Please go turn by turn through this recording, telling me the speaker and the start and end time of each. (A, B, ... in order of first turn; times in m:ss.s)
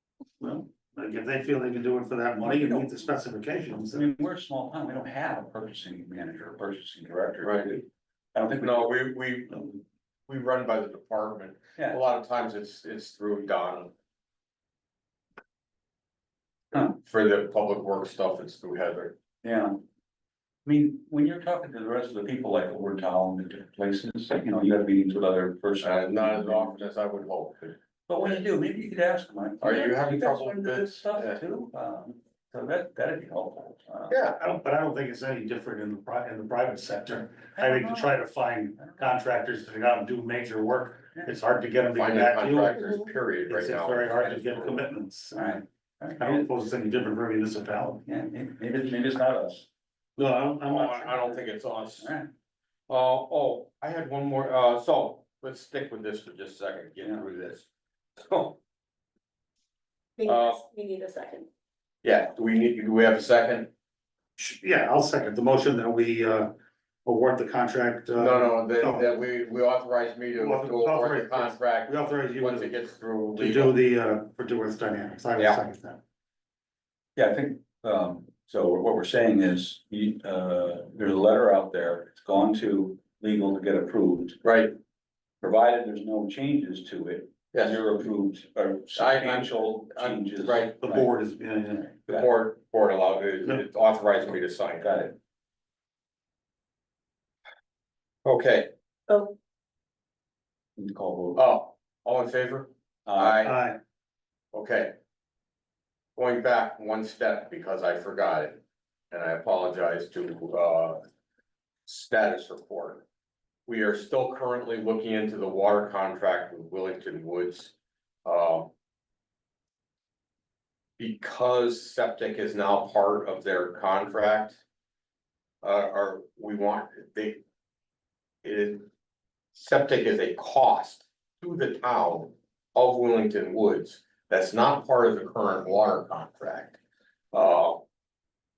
0:00.4-0:04.1 A
0:02.4-0:03.1 B
0:03.9-0:09.0 B
0:07.4-0:07.7 C
0:08.6-0:13.9 C
0:17.0-0:19.1 C
0:19.4-0:19.8 B
0:20.6-0:26.8 B
0:25.8-0:27.7 C
0:28.1-0:34.4 B
0:29.6-0:31.4 C
0:34.1-0:34.4 C
0:34.4-0:42.9 A
0:37.6-0:38.2 B
0:38.8-0:39.1 B
0:41.9-0:44.9 C
0:42.8-0:43.1 D
0:43.5-0:45.5 A
0:45.3-0:46.5 B
0:46.2-0:48.0 A
0:48.1-0:49.7 B
0:50.2-0:51.4 A
0:50.7-0:52.1 C
0:52.0-0:52.3 B
0:52.9-0:57.7 C
0:57.0-0:57.3 B
0:58.2-0:58.6 C
1:00.2-1:01.5 D
1:00.2-1:00.6 C
1:02.0-1:03.7 C
1:04.4-1:06.5 A
1:07.0-1:09.2 A
1:08.2-1:13.8 C
1:10.4-1:12.8 A
1:13.3-1:16.0 A
1:17.2-1:24.4 B
1:24.4-1:24.7 C
1:25.4-1:31.1 B
1:27.5-1:27.8 C
1:29.0-1:30.7 C
1:30.8-1:31.9 A
1:31.7-1:32.3 B
1:32.1-1:34.9 C
1:34.8-1:35.2 B
1:38.2-1:38.7 C
1:39.1-1:39.3 D
1:40.8-1:41.4 B
1:41.3-1:43.5 C
1:43.0-1:43.5 B
1:43.4-1:43.8 A
1:44.5-1:44.9 C
1:46.2-1:51.0 C
1:51.8-1:53.0 C
1:53.7-1:57.7 C
1:58.2-1:58.7 C
2:01.0-2:04.6 C
2:05.6-2:07.4 C
2:08.4-2:08.9 C
2:09.5-2:16.8 C
2:17.3-2:17.8 C